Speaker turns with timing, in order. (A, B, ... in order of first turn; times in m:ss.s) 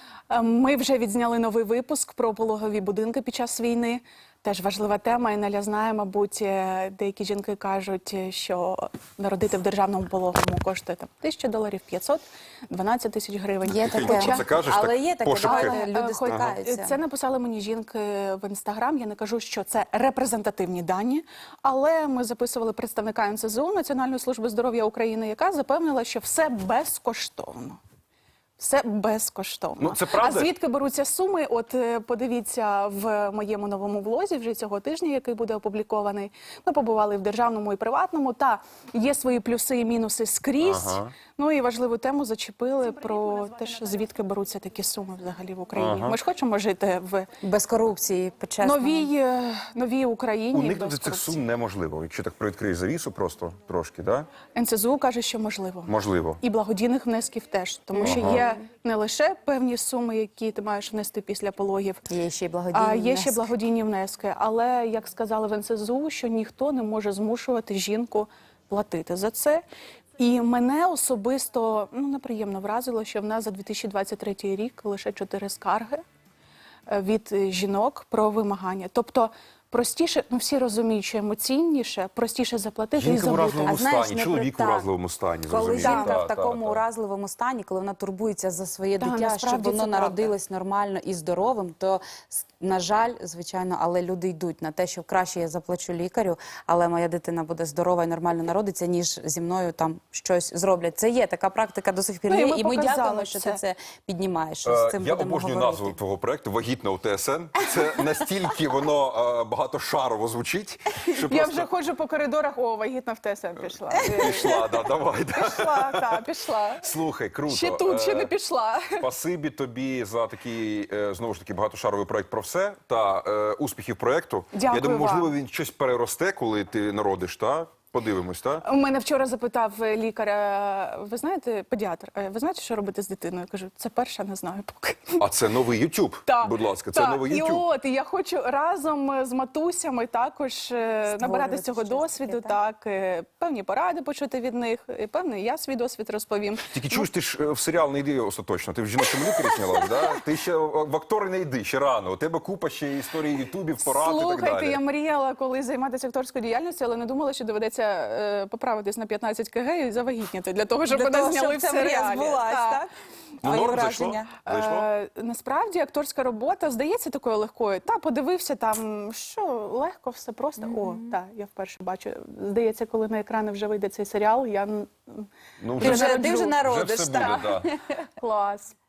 0:00.3-0:14.6 A
0:13.6-0:17.0 B
0:13.7-0:16.5 C
0:15.4-0:27.8 A
0:28.6-0:47.3 A
0:29.8-0:30.5 C
0:40.6-0:41.2 C
0:45.8-0:46.2 C
0:47.4-0:49.1 B
0:48.6-0:51.4 A
0:50.5-0:54.3 C
0:54.5-1:02.0 A
0:55.9-0:56.4 C
0:57.9-0:58.6 B
0:58.0-0:58.4 C
1:02.1-1:03.5 B
1:02.7-1:09.6 A
1:10.2-1:16.0 A
1:16.9-1:23.8 A
1:23.0-1:26.8 C
1:23.7-1:24.9 B
1:25.5-1:46.0 B
1:25.8-1:26.2 A
1:29.0-1:30.4 A
1:42.3-1:43.6 A
1:44.7-1:51.7 C
1:51.2-1:56.9 A
1:54.0-1:54.5 B
1:54.0-1:56.2 C
1:56.8-1:58.3 C
1:57.5-1:59.0 A
1:58.9-2:08.6 C
2:04.5-2:05.3 A
2:08.6-2:15.2 A
2:15.2-2:17.7 C
2:16.3-2:27.1 A
2:21.0-2:22.6 B
2:26.7-2:34.8 C
2:33.8-2:42.8 A
2:40.8-2:42.9 B
2:43.4-2:44.4 B
2:43.4-2:44.9 C
2:44.4-2:55.3 A
2:50.6-2:51.2 B
2:55.6-2:57.7 C
2:55.8-2:56.6 A
2:55.8-2:57.8 B
2:58.2-2:58.8 A